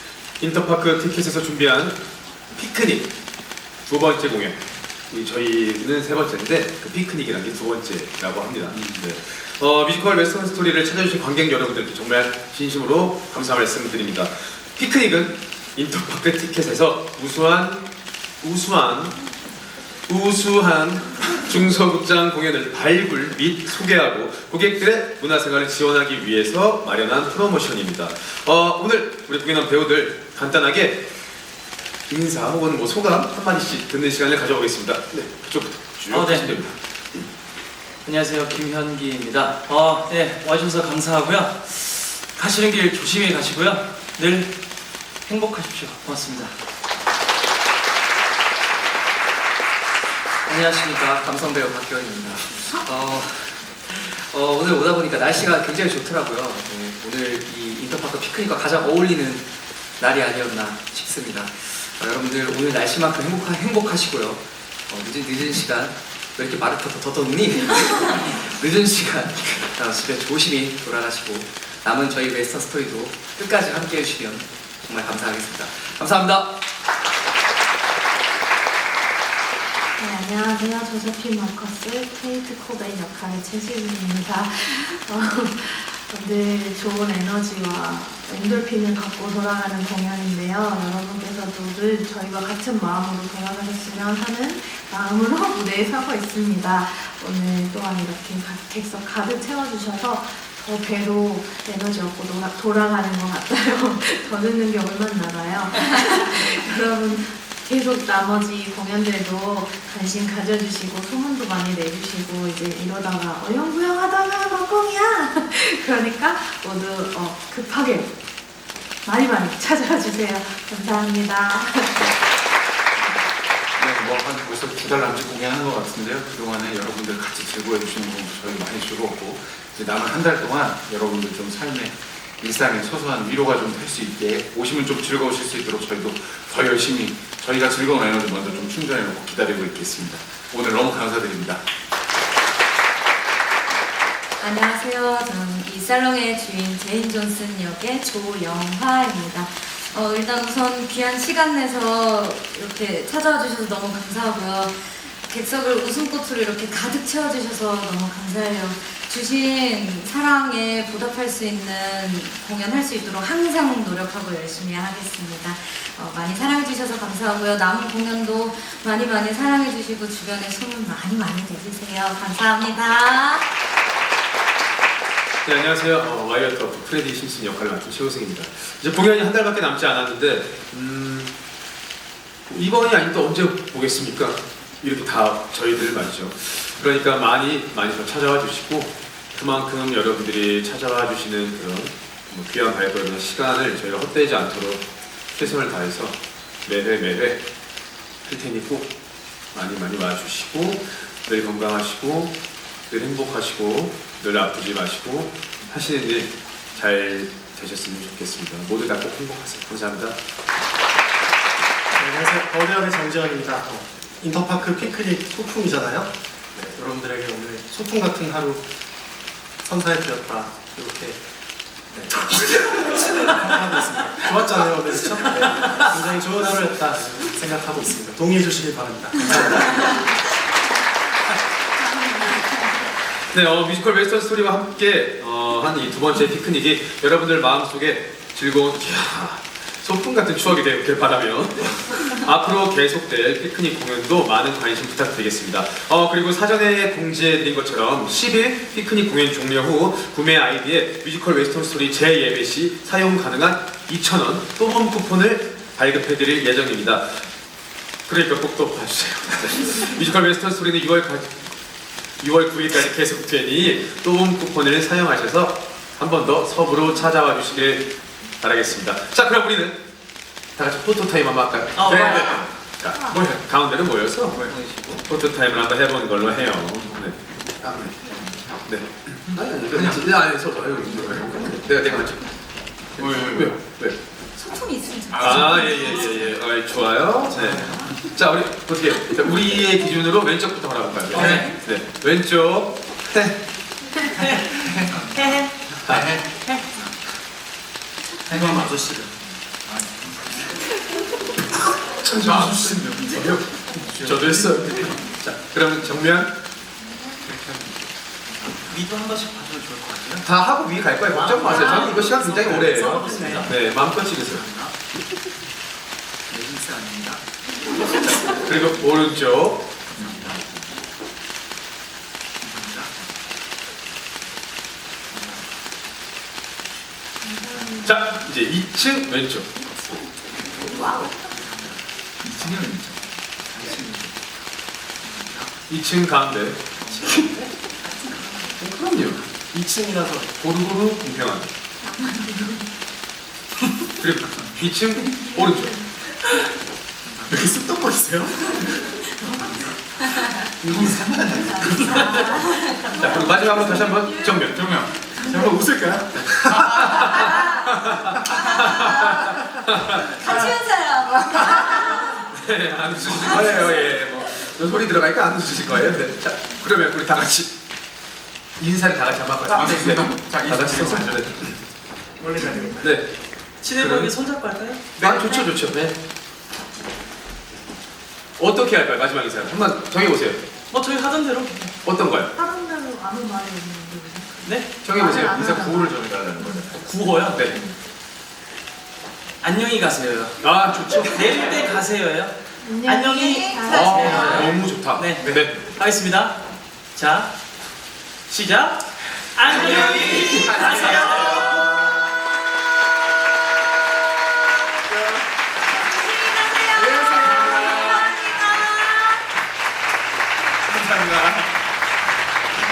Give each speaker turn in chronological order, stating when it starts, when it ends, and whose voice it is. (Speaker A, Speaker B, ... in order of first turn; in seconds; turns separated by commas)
Speaker A: 0.4-3.1, Speaker A: 3.9-17.8, Speaker A: 18.4-19.1, Speaker A: 20.1-31.1, Speaker A: 32.1-36.7, Speaker B: 36.1-36.6, Speaker B: 38.0-44.5, Speaker B: 45.2-46.5, Speaker C: 50.5-59.4, Speaker C: 60.0-76.5, Speaker D: 80.0-118.1, Speaker D: 119.0-122.0, Speaker E: 123.8-141.6, Speaker F: 144.4-173.5, Speaker A: 175.4-181.3, Speaker A: 182.5-197.4, Speaker A: 198.2-198.9, Speaker A: 199.5-202.3, Speaker A: 202.9-210.2, Speaker G: 211.9-218.6, Speaker G: 219.6-221.2, Speaker G: 222.0-229.8, Speaker A: 233.3-257.3, Speaker A: 258.1-261.5, Speaker A: 262.2-269.8, Speaker A: 270.6-274.4, Speaker B: 271.7-272.4, Speaker C: 274.3-274.9, Speaker A: 275.1-278.0, Speaker A: 278.6-282.3, Speaker A: 282.9-284.0, Speaker E: 283.0-283.5, Speaker F: 284.4-286.2, Speaker E: 285.1-285.8, Speaker A: 285.1-293.4, Speaker E: 291.1-291.4, Speaker B: 291.2-291.5, Speaker B: 295.1-295.5, Speaker A: 295.9-296.1, Speaker E: 295.9-296.2, Speaker E: 298.3-299.2, Speaker E: 299.7-300.3, Speaker E: 301.9-304.9, Speaker A: 302.1-306.4, Speaker E: 307.3-307.7, Speaker B: 308.7-310.1, Speaker A: 310.2-314.5, Speaker B: 311.1-313.5, Speaker F: 311.6-311.9, Speaker C: 313.8-314.7, Speaker C: 316.3-317.2, Speaker A: 318.3-319.7, Speaker E: 320.0-320.4, Speaker A: 327.8-329.5, Speaker E: 332.2-333.1, Speaker A: 335.7-337.1, Speaker A: 338.6-339.2, Speaker G: 339.5-340.2, Speaker A: 340.4-341.5, Speaker A: 344.0-345.8, Speaker E: 347.3-348.7, Speaker A: 350.6-351.0, Speaker E: 350.6-352.1, Speaker F: 351.6-353.0, Speaker A: 352.9-354.7, Speaker E: 354.4-356.8, Speaker A: 356.4-360.4, Speaker F: 358.5-359.1, Speaker F: 360.2-362.2, Speaker A: 362.1-367.5, Speaker F: 363.2-363.7, Speaker A: 368.6-371.5, Speaker E: 369.4-371.3, Speaker A: 372.8-373.1, Speaker B: 373.6-375.2, Speaker A: 373.7-374.1, Speaker A: 375.0-376.0, Speaker A: 378.4-380.4, Speaker B: 380.7-381.7, Speaker A: 381.8-382.3, Speaker D: 382.3-386.7, Speaker A: 384.8-385.5, Speaker E: 385.0-387.0, Speaker B: 386.8-387.5, Speaker A: 387.2-387.6, Speaker B: 389.4-396.4, Speaker A: 390.4-391.6, Speaker D: 392.6-394.5, Speaker A: 393.7-395.6, Speaker B: 396.9-397.3, Speaker B: 398.3-398.8, Speaker B: 399.3-401.6, Speaker A: 399.4-401.6, Speaker F: 406.3-408.7, Speaker A: 410.7-411.1